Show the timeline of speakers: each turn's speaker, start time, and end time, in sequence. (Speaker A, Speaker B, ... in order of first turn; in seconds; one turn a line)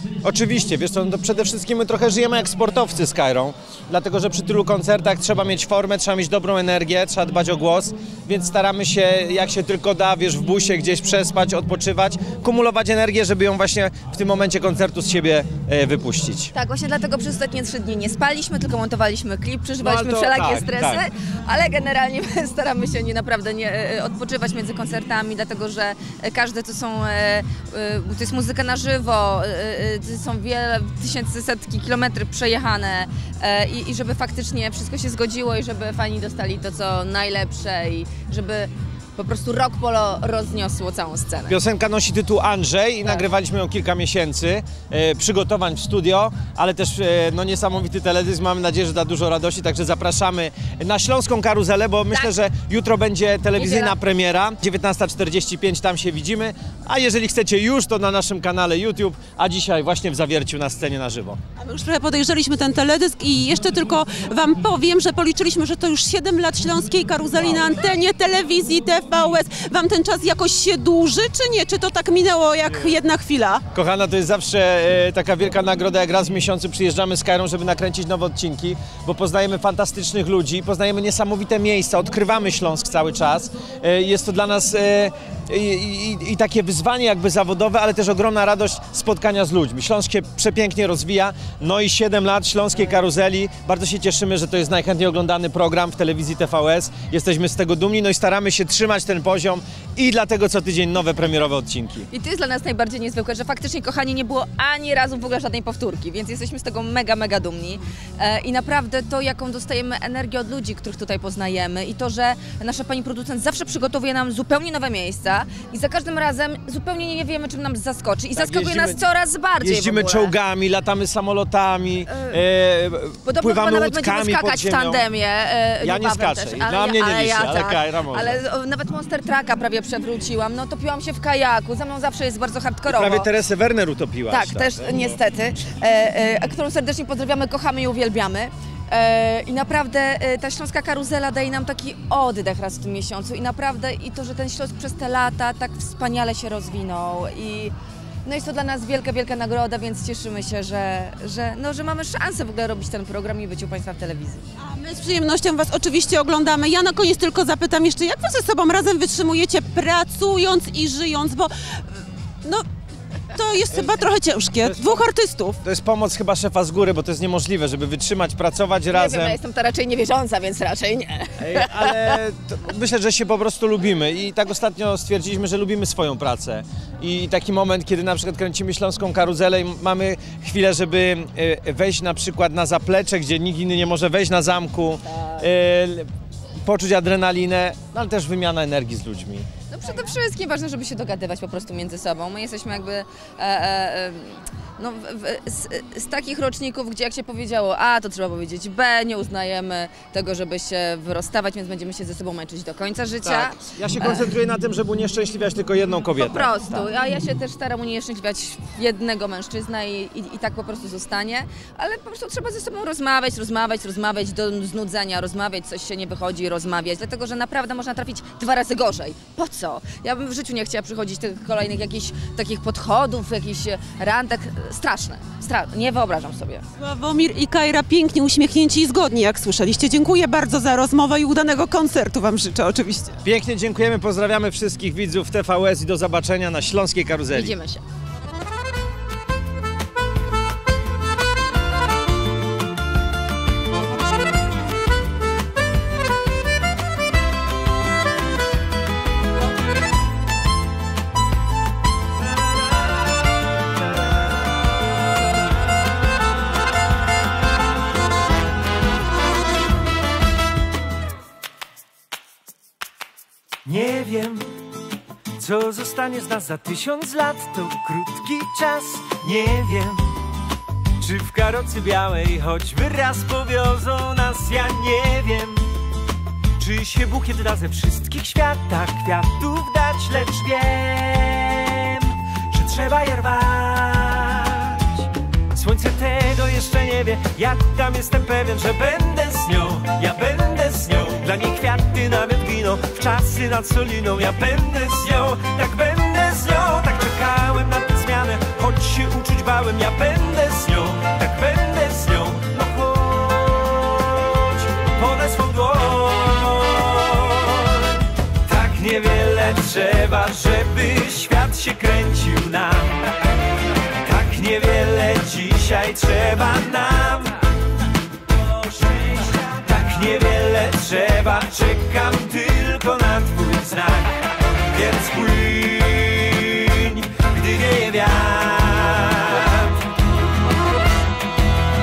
Speaker A: 0.2-1.0
Speaker B: 0.2-16.5
Speaker A: 2.0-3.1
Speaker A: 4.7-7.8
Speaker A: 8.8-10.1
Speaker C: 16.5-41.6
Speaker B: 19.8-20.9
Speaker A: 19.9-21.0
Speaker B: 41.5-61.4
Speaker A: 47.2-48.3
Speaker A: 48.9-49.8
Speaker A: 52.0-52.8
Speaker A: 53.4-53.9
Speaker C: 53.5-54.0
Speaker A: 56.0-56.3
Speaker A: 59.2-59.6
Speaker D: 61.6-73.6
Speaker B: 73.7-85.1
Speaker A: 75.7-76.4
Speaker A: 77.5-78.4
Speaker A: 79.4-79.7
Speaker A: 81.4-86.7
Speaker B: 86.0-102.0
Speaker A: 87.3-91.2
Speaker A: 92.6-95.7
Speaker A: 96.5-97.2
Speaker A: 98.8-102.0
Speaker C: 102.1-120.3
Speaker A: 118.4-119.0
Speaker A: 119.6-125.0
Speaker B: 120.8-122.3
Speaker C: 122.1-122.4
Speaker C: 123.2-133.3
Speaker B: 123.3-124.8
Speaker A: 125.8-128.4
Speaker B: 126.1-126.6
Speaker B: 127.6-128.1
Speaker A: 132.9-135.1
Speaker B: 133.3-134.5
Speaker C: 134.3-154.4
Speaker D: 154.6-162.7
Speaker D: 163.3-165.6
Speaker A: 164.6-165.0
Speaker A: 165.6-169.3
Speaker B: 165.9-169.2
Speaker C: 168.9-172.2
Speaker A: 171.4-176.5
Speaker B: 172.2-181.2
Speaker A: 177.1-186.0
Speaker B: 181.7-184.6
Speaker C: 185.1-185.4
Speaker B: 185.6-186.0
Speaker A: 186.7-189.3
Speaker B: 186.7-189.5
Speaker C: 189.7-204.3
Speaker A: 203.2-206.8
Speaker B: 203.7-206.3
Speaker C: 206.2-226.6
Speaker D: 226.8-233.2
Speaker A: 233.2-237.5
Speaker B: 233.3-237.3
Speaker C: 237.3-237.8
Speaker A: 263.6-264.5
Speaker A: 265.4-270.0
Speaker A: 271.0-275.7
Speaker A: 276.6-285.0
Speaker A: 285.5-307.6
Speaker B: 287.7-289.3
Speaker B: 293.0-297.4
Speaker B: 298.0-299.1
Speaker B: 299.7-300.5
Speaker B: 305.1-305.4
Speaker B: 306.4-306.9
Speaker A: 308.4-312.9
Speaker B: 308.7-312.4
Speaker A: 314.0-317.2
Speaker B: 314.1-317.1
Speaker A: 318.6-321.4
Speaker B: 319.6-324.1
Speaker A: 322.8-324.0
Speaker B: 324.7-329.6
Speaker A: 324.8-325.3
Speaker A: 327.1-328.5